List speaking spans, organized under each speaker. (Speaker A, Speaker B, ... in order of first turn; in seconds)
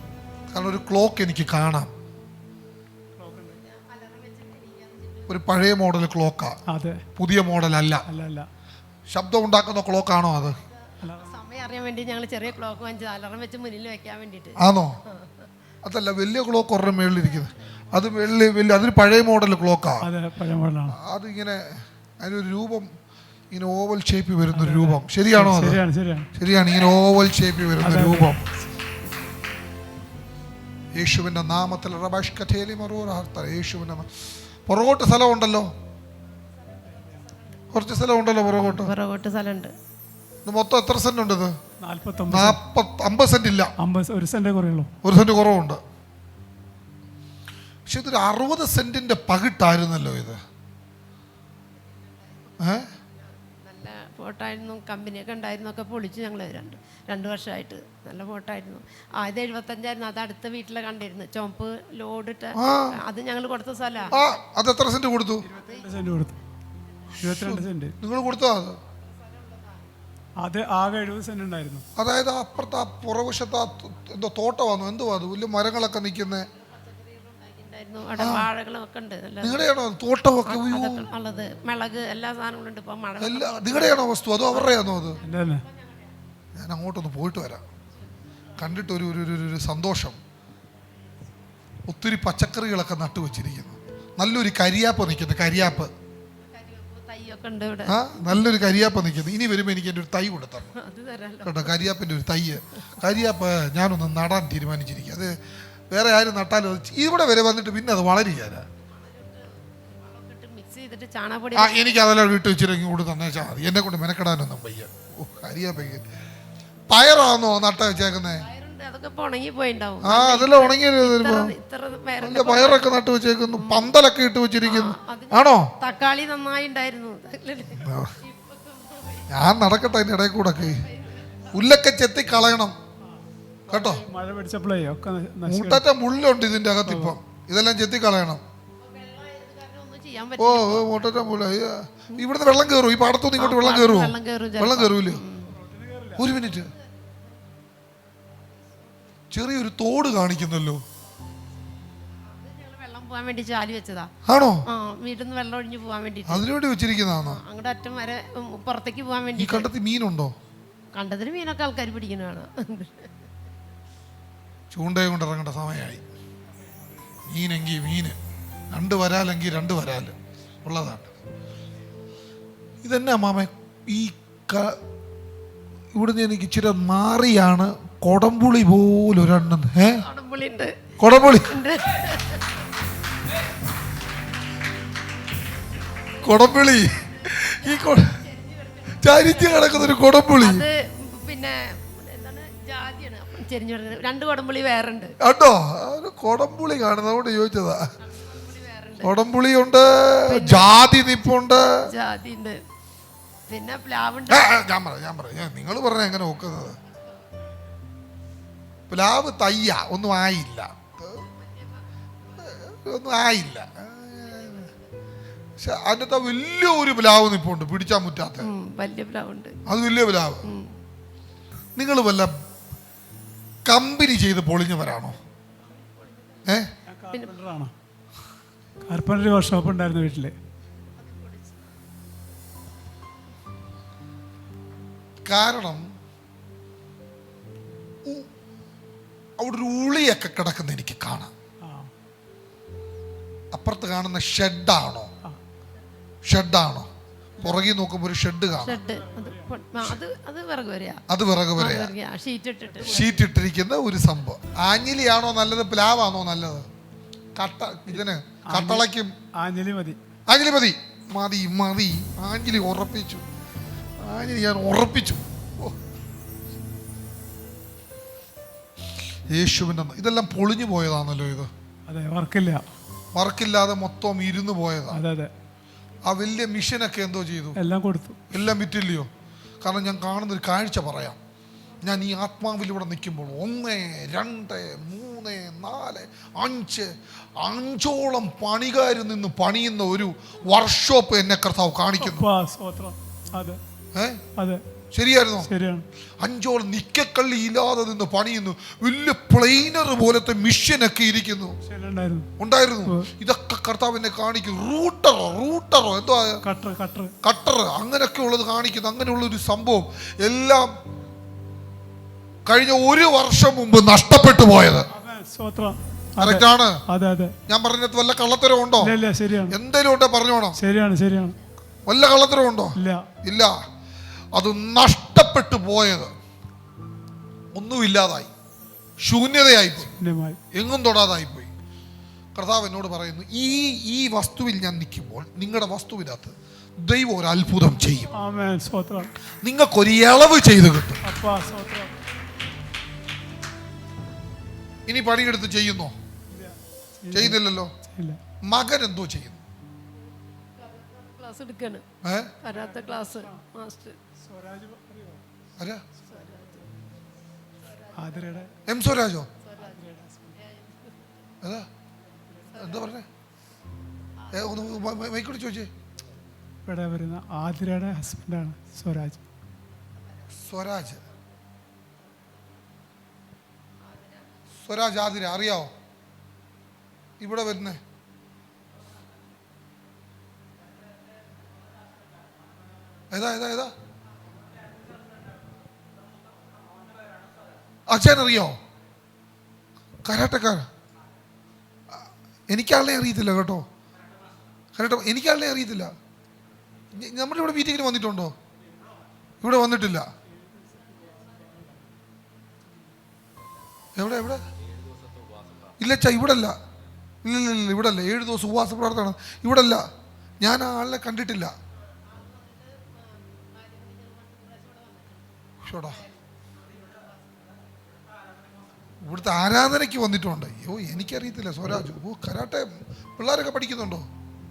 Speaker A: 0.5-1.9, 5.3-6.6, 7.2-8.1, 9.1-10.6, 14.6-15.0, 15.8-20.1, 20.9-22.9, 23.5-25.8, 26.3-28.4, 30.9-34.1, 34.7-35.7, 37.7-38.9, 40.5-41.5, 42.3-43.7, 45.0-45.8, 47.9-50.4, 52.6-52.9, 62.5-63.0, 64.1-65.5, 67.1-68.8, 72.0-76.5, 78.2-78.5, 79.4-81.0, 83.2-85.2, 86.5-87.7, 88.6-90.2, 91.9-95.9, 97.9-100.7, 101.4-105.3, 105.9-108.7, 111.5-116.0, 116.9-118.5, 120.0-121.5, 122.2-125.7, 127.8-128.1, 129.3-130.8, 131.5-132.7, 133.7-134.0, 135.4-138.4, 140.4-145.2, 146.2-146.7, 149.3-150.8, 154.2-154.7, 156.3-157.4, 159.4-160.3, 164.7-166.0, 167.3-168.2, 168.7-171.1, 172.8-174.8, 175.9-180.0, 181.0-181.5, 186.2-188.2, 189.0-190.6, 195.2-197.9, 199.0-201.9, 204.3-206.8, 208.9-211.2, 212.4-214.7, 215.6-218.5, 219.7-220.5, 221.8-222.3, 223.7-225.2, 226.4-226.7, 235.2-235.9, 239.4-241.3, 243.5-245.1, 246.2-246.9, 247.4-248.8, 251.1-251.9, 252.9-256.7, 257.4-259.1, 260.3-263.2, 264.0-265.7, 269.3-271.5, 273.1-275.0, 276.1-277.6, 278.3-279.1, 279.6-281.2, 281.8-292.3, 293.9-294.2, 294.9-295.5, 296.2-301.6, 302.4-306.4, 307.2-310.7, 312.4-314.9, 316.2-316.8, 317.5-318.9, 319.5-320.6, 321.9-323.6, 324.4-326.1, 327.5-328.3, 329.0-329.9, 330.5-331.5, 332.3-338.1, 339.4-341.0, 344.9-345.9, 347.1-347.7, 348.4-349.4, 352.0-352.3, 355.6-355.8, 358.7-359.3, 361.4-361.7, 362.5-363.0, 364.3-365.7, 370.4-371.0, 374.6-375.7, 377.2-377.8, 383.1-383.7, 387.9-388.6, 390.0-390.7, 392.5-393.6, 394.8-395.9, 396.9-398.3, 399.4-400.1, 404.0-404.4, 405.8-406.6, 407.2-409.9, 410.4-411.5, 415.6-416.0, 419.0-424.1
Speaker B: 3.2-3.6, 6.7-7.0, 8.1-8.5, 11.0-11.3, 20.0-21.0, 24.5-26.3, 27.8-28.3, 41.8-42.6, 43.8-44.9, 65.4-66.3, 67.2-67.9, 70.4-71.8, 85.2-85.6, 133.0-135.8, 136.8-137.2, 145.5-146.3, 226.9-227.7, 228.8-230.3, 241.6-241.9, 248.6-249.5, 252.8-253.1, 257.9-260.0, 271.9-272.6, 274.9-275.3, 277.6-278.2, 292.0-293.6, 294.4-294.6, 295.4-295.9, 301.6-302.3, 306.4-307.1, 314.9-317.3, 318.8-319.5, 320.6-321.4, 322.8-323.1, 329.9-330.4, 338.1-339.1, 341.0-341.9, 346.3-348.2, 352.5-353.4, 354.1-355.2, 356.0-356.7, 357.9-358.5, 359.6-360.4, 366.6-369.2, 400.3-401.8
Speaker C: 3.6-5.4, 11.2-15.5, 36.9-37.2, 38.5-39.7, 52.1-64.2, 69.0-69.9, 76.5-79.7, 80.4-86.2, 96.5-98.2, 100.7-101.8, 108.9-112.0, 118.4-123.0, 123.6-123.9, 124.6-129.7, 130.5-131.5, 138.8-141.2, 143.4-145.5, 146.2-147.1, 152.2-154.1, 154.7-156.4, 157.2-159.7, 160.9-163.1, 179.9-182.6, 186.2-195.1, 198.0-199.2, 200.3-200.8, 201.8-202.6, 203.5-204.5, 211.2-212.5, 214.2-214.8, 218.4-219.6, 220.4-220.7, 225.6-226.5, 230.9-231.6, 248.6-251.0, 251.6-253.0, 350.6-351.8, 352.4-354.0, 356.1-356.6, 357.7-358.4, 359.4-361.1, 362.5-362.9, 364.2-365.0, 373.8-374.3, 411.9-415.3, 416.8-417.1